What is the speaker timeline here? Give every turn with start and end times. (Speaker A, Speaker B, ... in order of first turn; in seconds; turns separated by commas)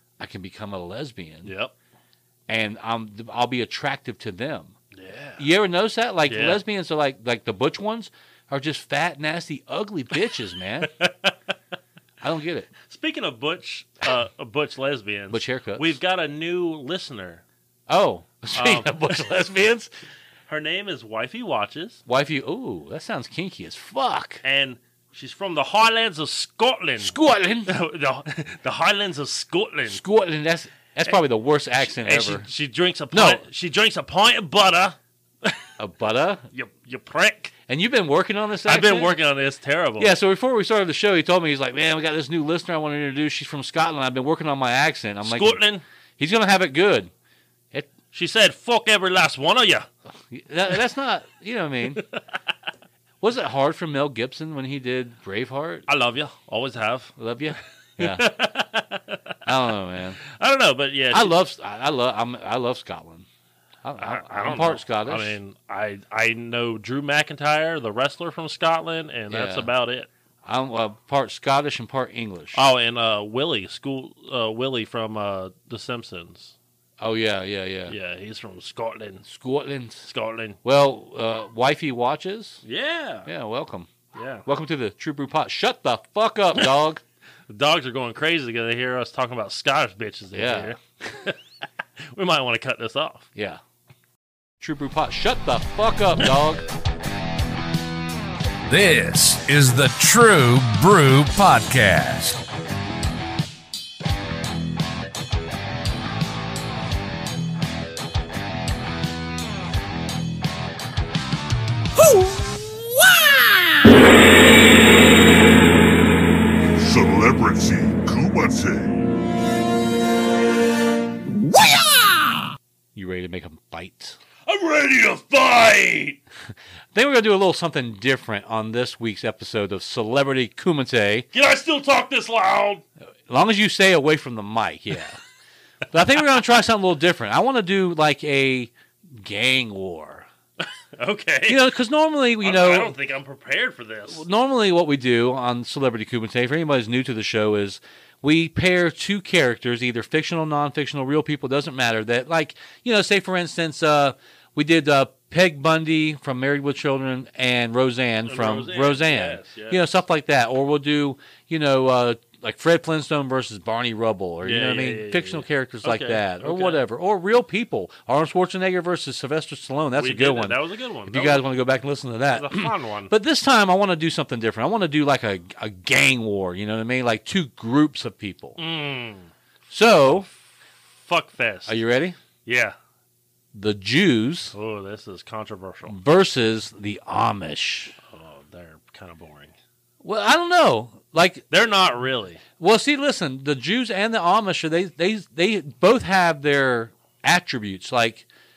Speaker A: 0.2-1.5, Speaker B: 1.4-1.7, Speaker A: 2.5-4.7, Speaker B: 4.9-5.5, Speaker A: 5.4-10.9, Speaker B: 6.3-6.6, Speaker B: 10.8-11.3, Speaker A: 12.2-12.7, Speaker B: 12.9-17.4, Speaker A: 15.3-16.0, Speaker A: 17.9-19.9, Speaker B: 18.5-19.2, Speaker B: 20.5-22.0, Speaker A: 22.1-24.4, Speaker B: 24.4-30.0, Speaker A: 27.0-27.7, Speaker A: 29.9-32.5, Speaker B: 31.8-35.7, Speaker A: 33.1-33.4, Speaker A: 35.8-36.4, Speaker B: 36.5-37.5, Speaker A: 37.7-39.1, Speaker B: 38.6-40.1, Speaker A: 40.0-45.6, Speaker B: 45.2-45.8, Speaker A: 46.2-47.1, Speaker B: 48.1-49.9, Speaker A: 50.3-52.0, Speaker A: 53.2-55.9, Speaker B: 55.9-57.1, Speaker A: 57.2-58.3, Speaker B: 58.0-59.4, Speaker A: 59.4-60.2, Speaker B: 60.2-61.4, Speaker A: 61.1-63.2, Speaker A: 63.8-65.4, Speaker B: 64.0-70.1, Speaker A: 69.3-69.7, Speaker A: 70.4-72.6, Speaker B: 72.5-76.5, Speaker A: 77.0-77.9, Speaker B: 77.9-79.2, Speaker A: 79.2-80.1, Speaker B: 80.0-80.6, Speaker A: 80.6-82.6, Speaker B: 82.6-83.3, Speaker A: 83.2-83.9, Speaker B: 84.1-84.5, Speaker A: 84.5-87.0, Speaker B: 87.5-91.4, Speaker A: 90.3-91.1, Speaker B: 92.0-93.3, Speaker A: 93.3-93.6, Speaker A: 94.6-96.6, Speaker C: 98.7-102.4, Speaker D: 116.8-119.0, Speaker A: 122.9-124.2, Speaker B: 124.5-126.2, Speaker A: 126.9-131.3, Speaker B: 131.3-132.8, Speaker A: 133.3-135.2, Speaker A: 135.9-140.3, Speaker B: 141.0-141.6, Speaker A: 141.5-142.9, Speaker B: 142.4-144.2, Speaker A: 144.1-178.6, Speaker B: 158.2-159.8, Speaker B: 164.4-166.8, Speaker B: 170.0-171.5, Speaker B: 172.3-173.1, Speaker B: 178.6-179.3, Speaker A: 179.7-180.3, Speaker B: 181.0-181.8, Speaker A: 181.7-182.2, Speaker B: 182.4-182.8, Speaker A: 183.5-184.5, Speaker B: 184.5-186.0, Speaker A: 185.9-187.9, Speaker B: 188.1-189.5, Speaker A: 190.0-191.4, Speaker B: 191.5-192.4, Speaker A: 192.6-198.2